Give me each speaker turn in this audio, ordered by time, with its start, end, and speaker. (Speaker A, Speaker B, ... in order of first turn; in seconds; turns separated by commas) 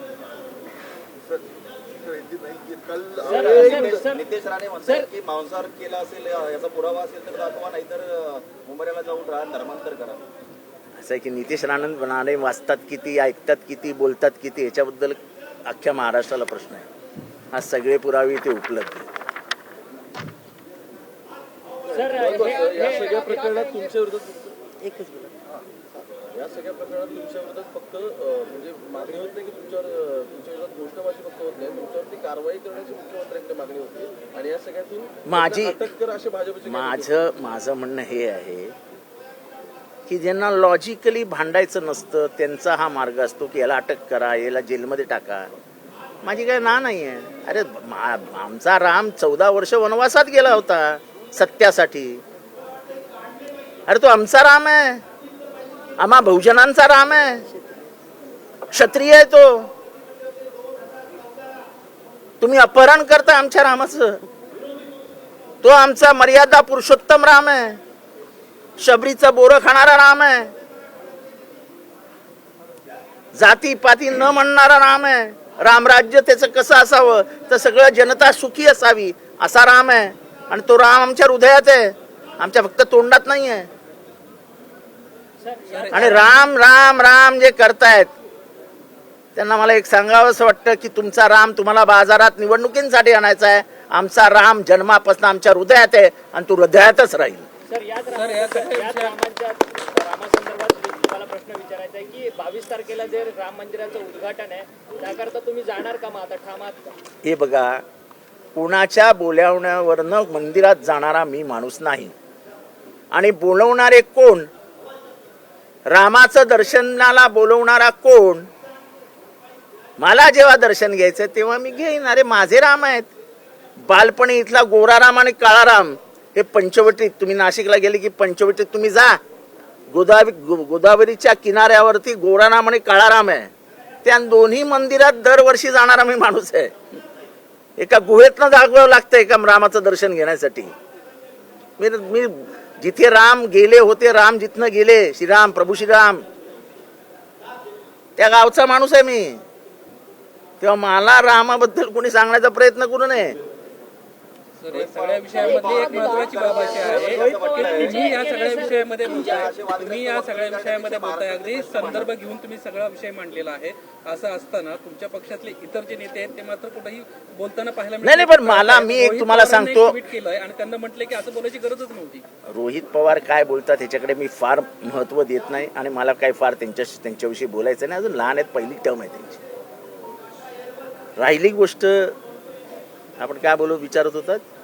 Speaker A: 2.3-10.2, Speaker B: 2.5-4.1, Speaker C: 3.2-4.2, Speaker D: 11.0-16.9, Speaker D: 17.5-19.1, Speaker B: 21.9-24.7, Speaker C: 21.9-23.1, Speaker B: 25.3-25.6, Speaker B: 26.2-37.2, Speaker D: 35.2-35.8, Speaker D: 36.7-38.7, Speaker D: 40.0-45.5, Speaker D: 46.2-52.2, Speaker D: 53.9-55.0, Speaker D: 56.0-57.5, Speaker D: 58.7-59.7, Speaker D: 62.4-64.2, Speaker D: 65.6-67.8, Speaker D: 68.8-70.5, Speaker D: 73.3-83.7, Speaker C: 85.4-86.0, Speaker E: 85.7-86.2, Speaker D: 85.9-88.1, Speaker D: 89.3-97.5, Speaker C: 97.7-106.9, Speaker E: 98.1-99.2, Speaker D: 107.2-107.8, Speaker D: 108.5-112.1, Speaker D: 113.1-114.5, Speaker D: 115.9-118.5, Speaker D: 120.0-123.1, Speaker D: 123.8-129.2, Speaker D: 129.9-133.5, Speaker D: 134.0-136.7, Speaker D: 137.8-140.7, Speaker D: 141.8-146.2, Speaker D: 148.2-149.4, Speaker D: 150.6-153.4, Speaker E: 154.6-172.2, Speaker A: 154.7-162.1, Speaker C: 157.4-159.2, Speaker D: 168.0-170.0, Speaker D: 172.4-179.4, Speaker D: 181.2-182.2, Speaker D: 183.2-184.4